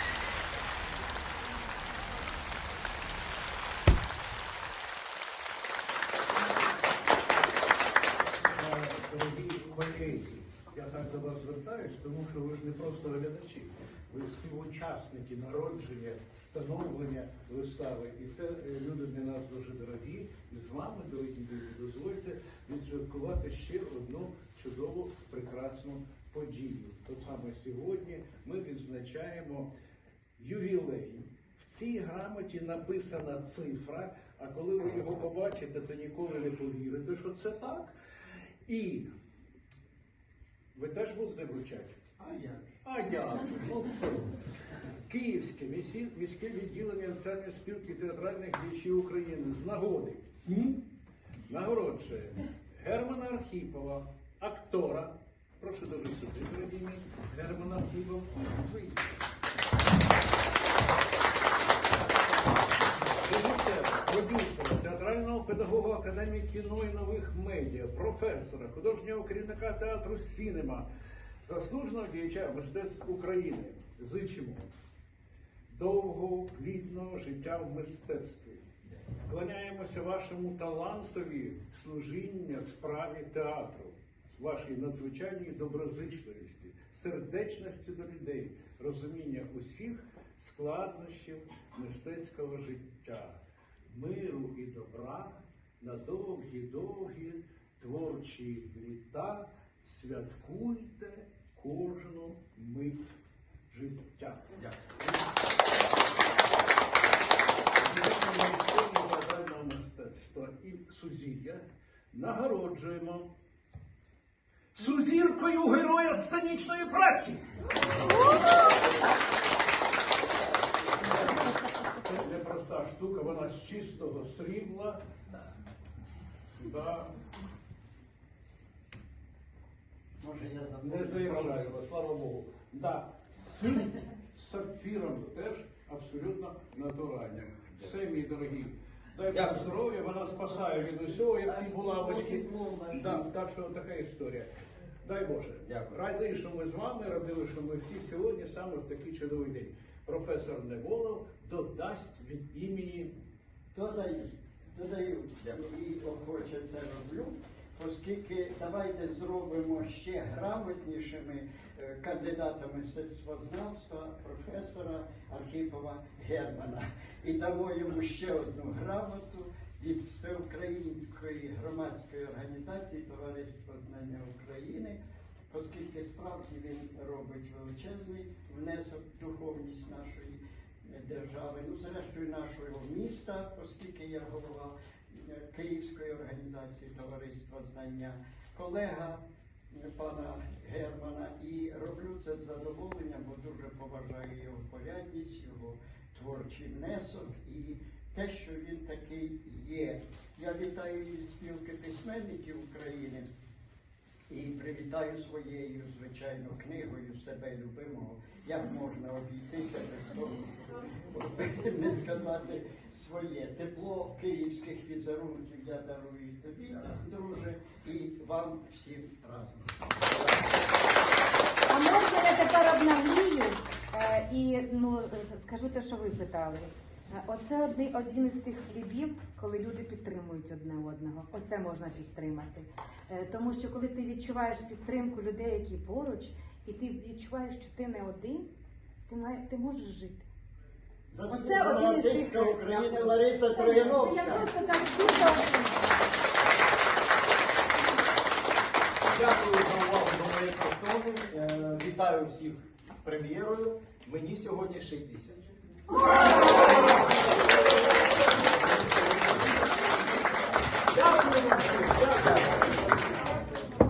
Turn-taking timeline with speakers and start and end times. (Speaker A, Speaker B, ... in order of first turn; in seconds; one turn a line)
Speaker A: 8.5-29.7
Speaker A: 30.4-37.9
Speaker A: 38.6-39.1
Speaker A: 40.7-42.0
Speaker B: 42.2-42.7
Speaker A: 42.8-44.4
Speaker A: 45.1-50.3
Speaker A: 51.5-59.0
Speaker A: 63.2-70.9
Speaker A: 71.4-74.7
Speaker A: 75.7-78.6
Speaker A: 79.2-103.0
Speaker A: 103.7-105.1
Speaker A: 107.8-113.3
Speaker A: 114.7-117.5
Speaker A: 122.0-125.0
Speaker A: 126.6-127.1
Speaker B: 130.2-131.7
Speaker A: 130.8-144.5
Speaker C: 139.3-139.7
Speaker C: 141.4-143.2
Speaker A: 145.0-153.1
Speaker C: 145.7-145.9
Speaker B: 153.7-175.0
Speaker B: 175.5-203.3
Speaker B: 204.3-220.4
Speaker D: 221.7-238.5
Speaker D: 239.1-240.3
Speaker B: 241.1-244.5
Speaker D: 241.3-245.9
Speaker C: 249.0-255.4
Speaker A: 260.9-262.7
Speaker C: 262.1-262.4